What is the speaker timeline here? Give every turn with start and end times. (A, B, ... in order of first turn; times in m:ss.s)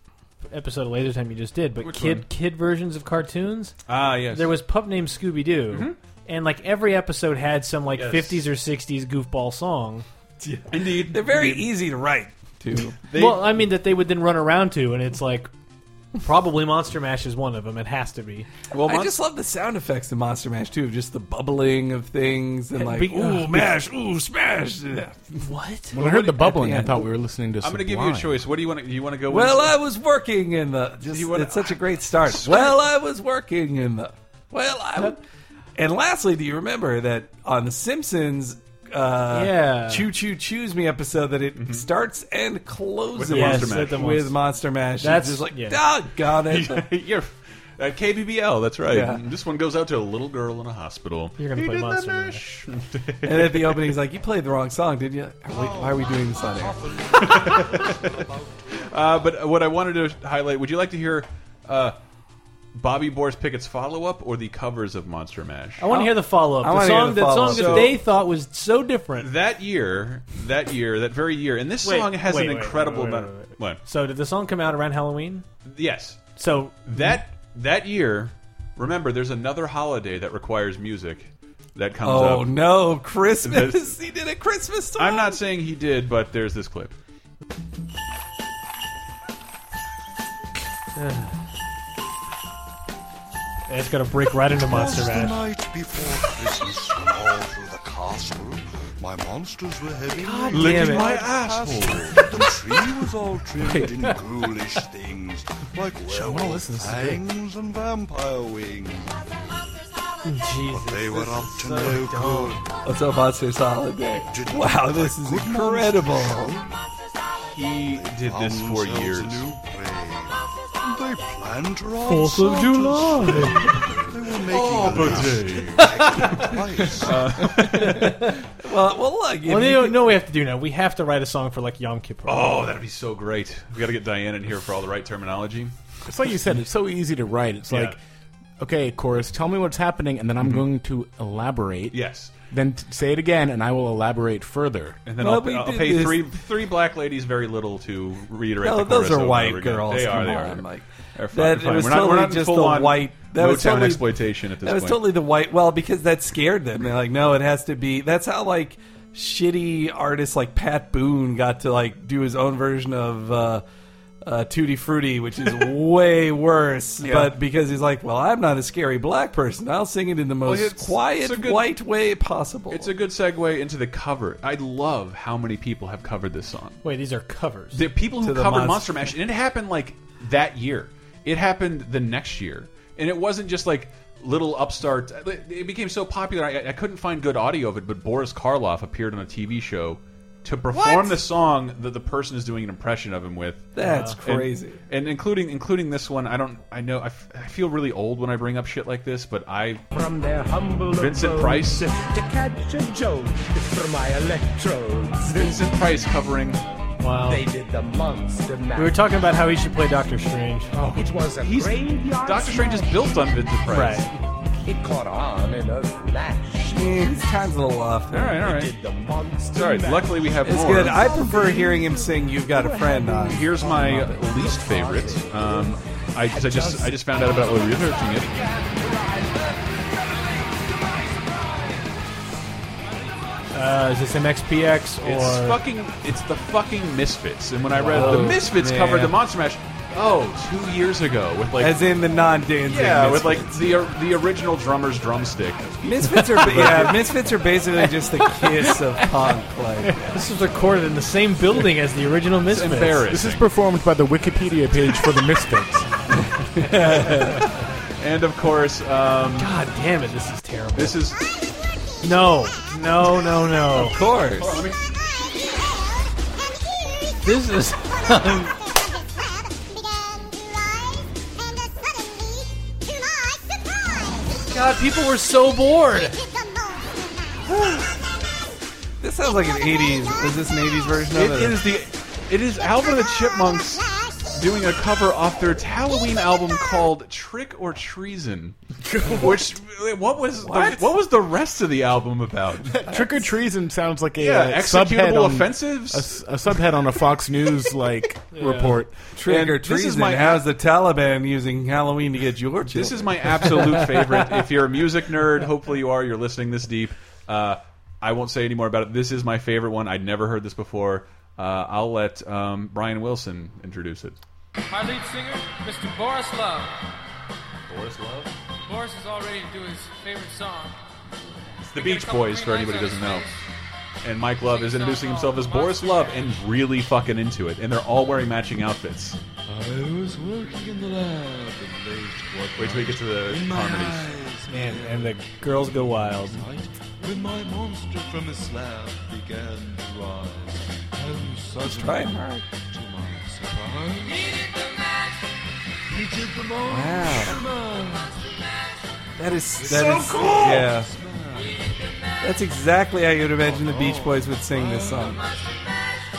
0:00.5-0:03.7 A
0:01.8-0:02.2 B
0:03.9-0:04.5 B
0:04.3-0:10.0 A
0:07.9-0:08.4 B
0:10.4-0:13.0 C
0:10.7-0:11.7 B
0:13.1-0:13.6 B
0:13.1-0:15.5 A
0:16.2-0:18.5 A
0:18.7-0:19.2 B
0:18.8-0:25.2 C
0:22.7-0:23.7 A
0:25.4-0:25.9 A
0:25.9-0:28.4 D
0:26.0-0:26.5 B
0:26.4-0:27.0 C
0:27.6-0:29.8 B
0:29.3-0:35.2 C
0:31.0-0:32.8 B
0:35.8-0:46.8 C
0:39.3-0:40.1 A
0:41.6-0:41.9 B
0:43.1-0:44.0 B
0:43.3-0:44.4 A
0:45.0-0:45.8 A
0:46.4-0:54.0 B
0:48.8-0:49.2 C
0:51.4-0:52.4 A
0:53.2-0:57.8 C
0:55.5-0:59.0 E
0:57.2-0:58.2 B
0:58.8-1:02.0 B
1:02.7-1:05.9 B
1:05.8-1:09.3 A
1:05.9-1:08.0 C
1:07.4-1:08.0 B
1:09.2-1:13.8 B
1:11.8-1:15.4 A
1:15.6-1:16.2 B
1:16.4-1:17.1 A
1:16.9-1:22.6 B
1:22.0-1:25.4 C
1:23.4-1:23.9 B
1:25.0-1:27.0 B
1:31.0-1:31.3 A
1:33.7-1:35.4 A
1:34.6-1:49.3 E
1:40.1-1:41.1 A
1:40.5-1:42.2 B
1:46.0-1:47.2 D
1:50.2-1:52.6 A
1:50.7-1:52.6 E
1:52.8-1:56.6 C
1:54.2-1:56.8 E
1:57.5-1:59.5 B
1:57.8-2:07.5 E
2:02.0-2:03.9 A
2:04.5-2:08.1 B
2:05.8-2:06.6 A
2:07.6-2:08.4 A
2:08.6-2:10.1 C
2:09.5-2:12.6 A
2:12.2-2:15.7 B
2:16.0-2:18.0 D
2:17.7-2:18.0 B
2:18.6-2:22.0 D
2:21.9-2:22.3 B
2:22.5-2:25.0 D
2:25.0-2:35.0 B
2:25.2-2:26.3 C
2:28.6-2:43.6 C
2:44.2-2:52.9 C
2:47.0-2:47.3 B
2:50.4-2:51.7 B
2:52.7-2:56.8 B
2:56.8-2:57.8 A
2:57.7-3:13.7 B
2:58.2-2:59.1 C
3:10.7-3:11.2 C
3:13.7-3:14.8 C
3:13.8-3:14.2 A
3:14.2-3:19.8 B
3:19.9-3:25.6 F
3:21.0-3:21.9 B
3:25.2-3:26.6 B
3:27.0-3:27.4 A
3:27.2-3:29.1 F
3:28.8-3:30.7 A
3:30.7-3:34.1 B
3:30.9-3:33.4 F
3:33.7-3:34.1 A
3:34.6-3:37.2 F
3:36.6-3:38.4 C
3:38.1-3:38.7 B
3:38.4-3:45.8 F
3:39.5-3:41.1 B
3:40.4-3:43.6 C
3:43.3-3:48.3 B
3:46.3-3:49.6 F
3:53.5-3:55.6 A
3:55.0-4:01.8 B
3:57.8-3:58.3 A
3:57.8-3:59.1 C
4:01.6-4:03.6 C
4:02.6-4:05.7 B
4:05.8-4:10.2 C
4:06.4-4:07.0 B
4:09.9-4:13.0 A
4:12.5-4:13.4 B
4:13.1-4:15.9 D
4:16.4-4:17.5 C
4:17.3-4:19.5 B
4:19.4-4:21.0 A
4:20.8-4:21.2 B
4:22.0-4:24.0 A
4:23.7-4:24.6 C
4:24.4-4:24.8 B
4:27.2-4:28.5 A
4:34.4-4:36.2 A
4:37.5-4:37.9 C
4:39.0-4:41.6 C
4:41.1-4:52.8 B
4:48.9-4:49.3 D
4:50.4-4:50.9 C
4:52.7-4:59.0 D
4:54.2-4:56.2 B
4:58.3-4:58.8 A
4:59.2-5:03.9 C
4:59.2-5:00.4 B
5:02.7-5:14.2 B
5:14.7-5:16.8 G
5:17.7-5:18.3 B
5:18.6-5:20.8 G
5:21.6-5:23.3 B
5:21.7-5:23.4 G
5:24.0-5:29.2 B
5:24.4-5:26.4 G
5:29.5-5:44.3 E
5:32.6-5:34.1 B
5:34.5-5:36.4 A
5:41.6-5:42.4 C
5:45.9-5:48.3 E
5:46.7-5:47.4 C
5:49.2-5:50.9 C
5:49.5-5:51.8 E
5:52.2-5:55.2 C
5:53.3-5:55.4 E